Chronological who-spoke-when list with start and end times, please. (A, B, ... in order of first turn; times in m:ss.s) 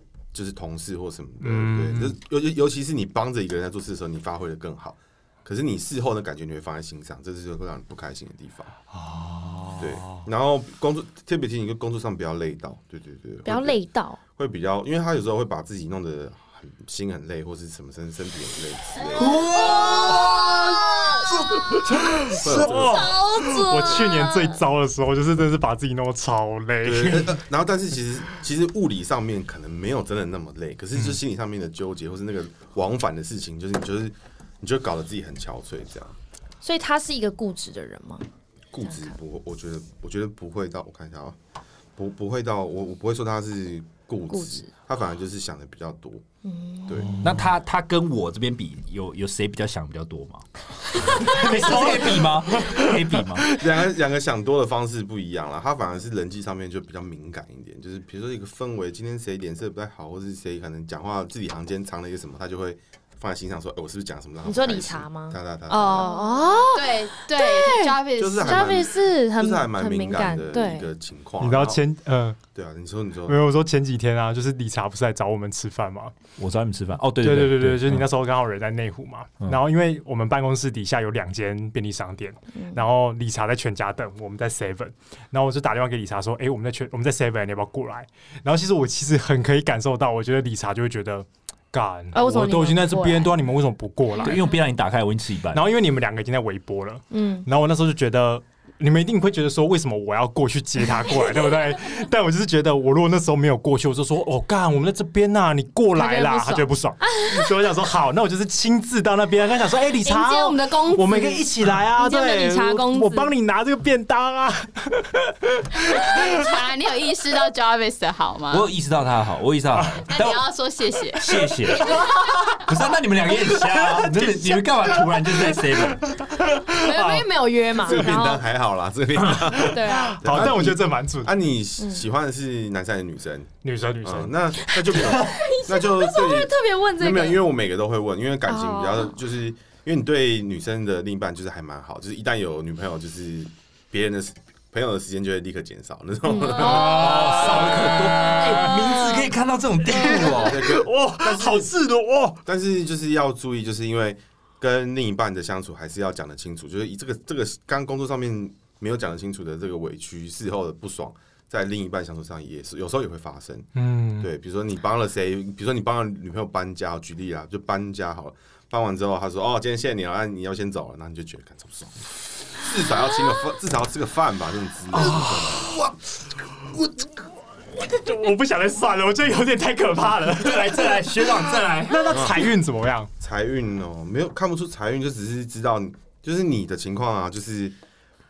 0:00.3-0:08.8 A
0:01.4-0:02.2 B
0:08.9-0:10.2 B
0:09.8-0:13.8 A
0:13.4-0:14.2 C
0:14.4-0:19.4 A
0:19.1-0:21.7 D
0:19.6-0:20.3 C
0:20.1-0:20.4 B
0:21.7-0:27.4 B
0:22.3-0:23.1 A
0:22.5-0:24.6 C
0:26.8-0:36.1 A
0:36.6-0:38.2 C
0:38.7-0:41.4 A
0:38.8-0:39.1 C
0:42.0-0:46.2 A
0:44.3-0:44.7 C
0:46.4-0:47.1 C
0:46.9-0:47.1 A
0:47.1-0:47.5 B
0:47.2-0:53.5 D
0:51.2-0:52.9 B
0:53.5-1:06.1 A
1:04.4-1:10.9 C
1:06.0-1:08.7 E
1:08.2-1:11.8 A
1:11.4-1:12.4 B
1:12.5-1:13.4 A
1:13.2-1:16.1 B
1:16.4-1:18.1 D
1:17.2-1:34.5 B
1:32.1-1:33.3 C
1:34.2-1:35.6 D
1:35.5-1:56.5 B
1:37.1-1:37.5 C
1:45.9-1:47.5 C
1:50.0-1:53.3 C
1:56.2-1:58.7 E
1:58.5-2:00.5 D
1:59.8-2:00.0 B
2:00.1-2:02.1 E
2:01.1-2:06.1 D
2:01.8-2:02.1 B
2:03.6-2:07.3 B
2:06.8-2:08.4 C
2:07.8-2:27.6 A
2:09.3-2:11.3 B
2:09.6-2:10.2 C
2:13.6-2:14.4 B
2:14.6-2:17.4 C
2:14.9-2:15.2 B
2:18.5-2:19.2 C
2:26.2-2:27.0 C
2:26.5-2:30.6 D
2:26.6-2:29.2 B
2:29.9-2:32.4 B
2:30.4-2:31.7 A
2:32.4-2:55.7 A
2:43.8-2:44.3 B
2:55.0-2:56.0 D
2:55.0-2:55.4 B
2:56.5-2:57.2 D
2:57.8-3:03.1 B
3:00.4-3:02.2 D
3:02.1-3:02.4 A
3:03.2-3:07.8 A